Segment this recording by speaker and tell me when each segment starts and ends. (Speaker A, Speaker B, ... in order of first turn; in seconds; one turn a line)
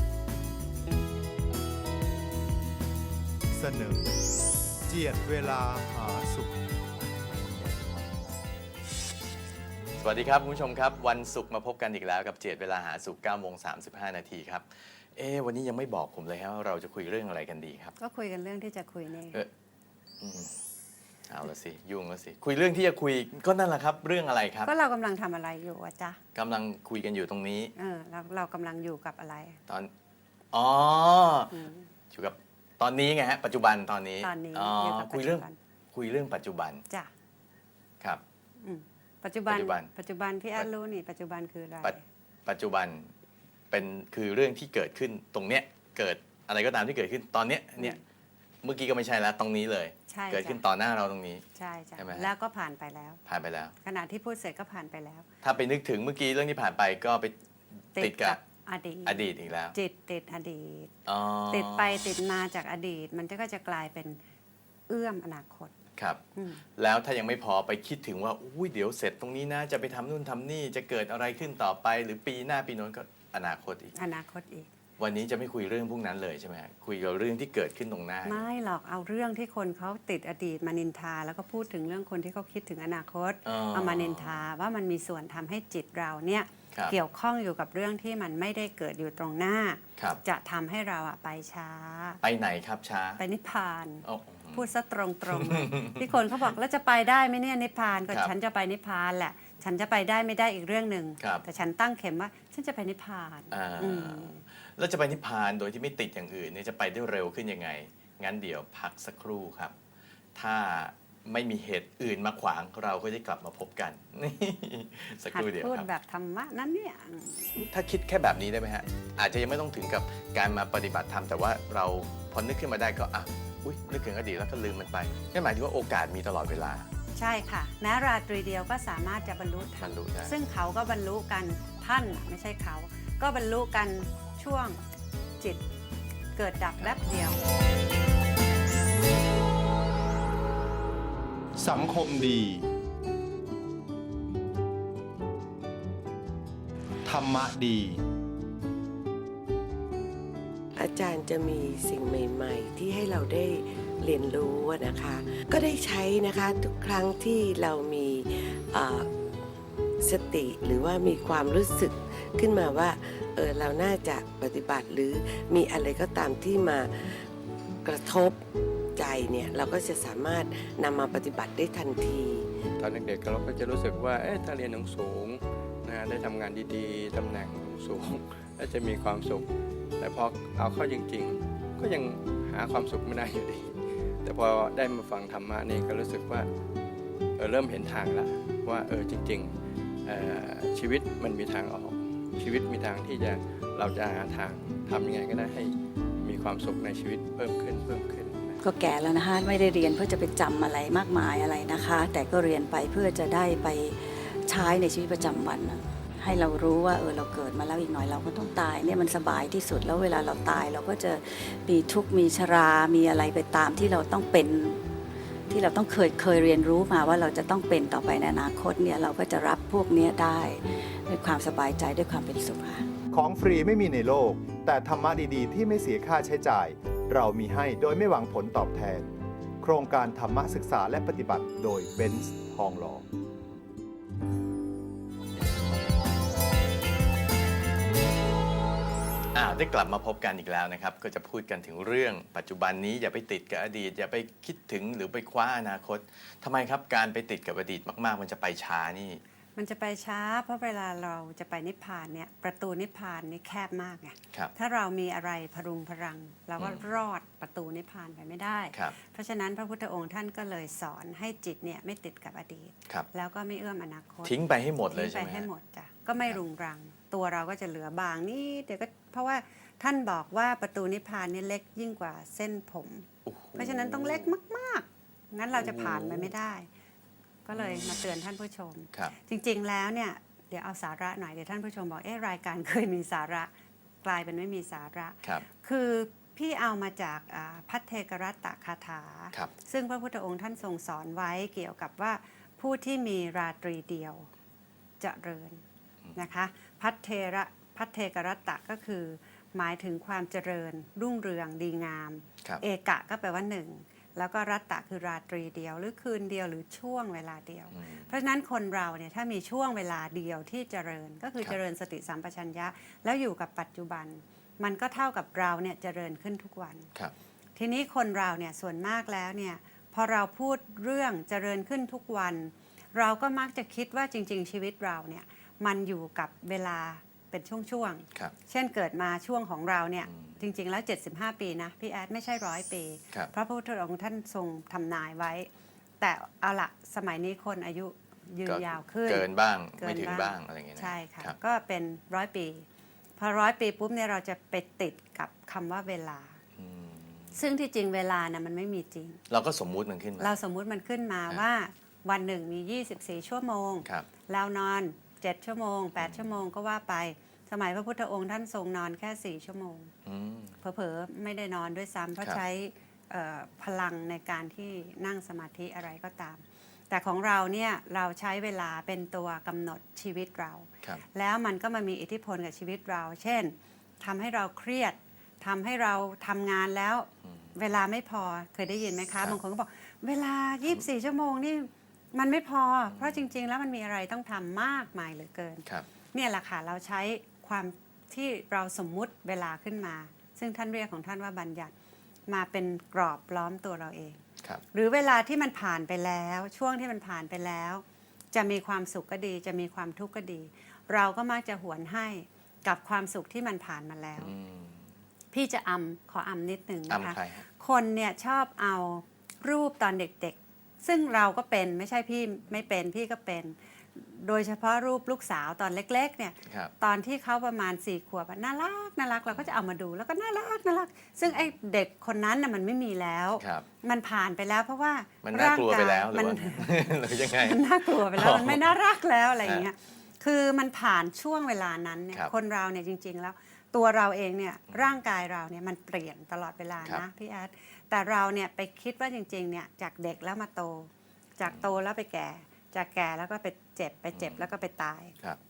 Speaker A: 3.5-4.2
Speaker A: 4.8-6.6
Speaker B: 10.0-17.9
Speaker C: 18.0-19.4
Speaker B: 20.2-20.6
Speaker B: 21.3-24.7
Speaker C: 24.6-26.2
Speaker B: 26.4-27.7
Speaker C: 27.8-29.6
Speaker B: 30.5-31.5
Speaker C: 31.5-31.9
Speaker B: 32.1-36.8
Speaker C: 34.2-35.6
Speaker C: 38.6-42.0
Speaker B: 39.5-39.9
Speaker B: 41.8-43.1
Speaker B: 43.7-48.0
Speaker B: 48.6-51.4
Speaker C: 50.1-50.6
Speaker C: 51.5-53.2
Speaker B: 52.0-52.3
Speaker B: 53.3-53.7
Speaker C: 53.8-55.2
Speaker B: 55.4-57.3
Speaker B: 58.0-58.4
Speaker C: 58.0-60.9
Speaker B: 59.0-59.8
Speaker B: 61.0-62.2
Speaker C: 61.5-64.2
Speaker C: 64.9-65.7
Speaker B: 66.0-66.2
Speaker C: 66.3-66.6
Speaker B: 66.8-73.9
Speaker C: 73.9-74.7
Speaker B: 75.0-78.4
Speaker C: 78.2-92.2
Speaker B: 83.5-84.4
Speaker B: 92.2-93.2
Speaker C: 93.2-104.4
Speaker B: 94.0-94.7
Speaker B: 95.3-96.5
Speaker B: 101.2-101.4
Speaker B: 103.5-109.7
Speaker B: 110.4-115.9
Speaker C: 115.3-117.7
Speaker B: 117.7-126.9
Speaker C: 127.1-134.8
Speaker B: 129.8-130.3
Speaker C: 136.4-137.4
Speaker A: 141.6-142.7
Speaker A: 147.1-148.0
Speaker D: 150.8-159.1
Speaker D: 160.0-167.3
Speaker D: 167.8-168.4
Speaker D: 169.0-172.5
Speaker E: 172.8-186.5
Speaker E: 187.4-189.5
Speaker E: 190.1-198.6
Speaker F: 198.6-214.8
Speaker F: 215.5-222.9
Speaker A: 223.1-229.1
Speaker A: 229.6-233.1
Speaker B: 239.3-249.2
Speaker C: 249.6-264.4
Speaker B: 264.2-265.5
Speaker C: 264.9-276.7
Speaker B: 273.2-274.3
Speaker B: 275.5-276.3
Speaker C: 277.4-283.5
Speaker B: 277.5-278.2
Speaker C: 284.0-294.3
Speaker C: 295.0-295.6
Speaker C: 296.2-316.9
Speaker B: 307.8-308.1
Speaker C: 317.6-335.5
Speaker B: 330.1-330.3
Speaker C: 336.0-339.2
Speaker B: 338.4-341.4
Speaker C: 339.8-342.7
Speaker C: 343.2-346.4
Speaker B: 346.6-347.3
Speaker C: 347.4-349.2
Speaker B: 349.3-350.4
Speaker C: 350.2-359.9
Speaker B: 356.0-356.2
Speaker B: 360.1-360.6
Speaker C: 360.6-391.7
Speaker B: 382.9-383.2
Speaker C: 392.3-394.2
Speaker C: 394.7-404.3
Speaker B: 404.2-404.9
Speaker C: 405.3-445.1
Speaker B: 406.9-407.4
Speaker B: 416.5-416.7
Speaker B: 423.4-423.7
Speaker B: 425.2-428.6
Speaker B: 434.7-435.0
Speaker B: 444.1-444.5